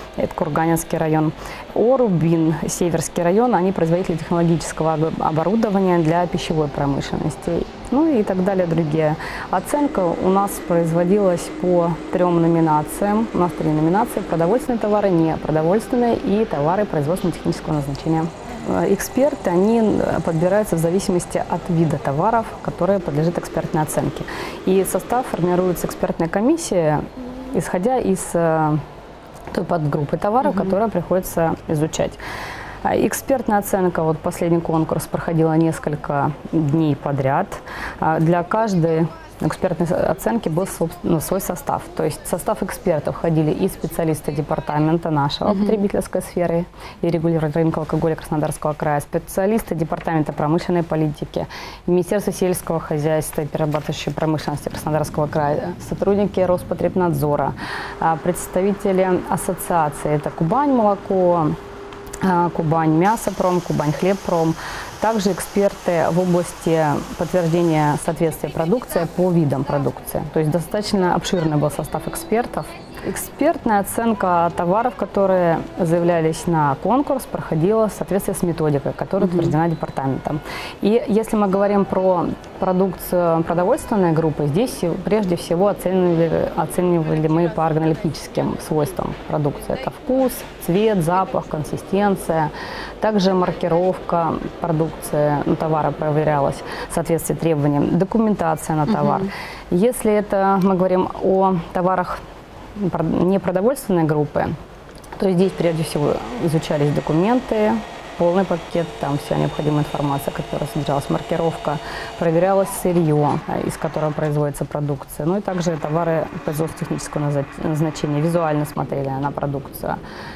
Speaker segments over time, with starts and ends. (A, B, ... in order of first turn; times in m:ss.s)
0:00.2-0:28.8 A
0:29.5-0:32.2 A
0:32.8-1:01.6 A
1:02.2-1:42.2 A
1:42.8-1:44.5 A
1:45.2-2:00.0 A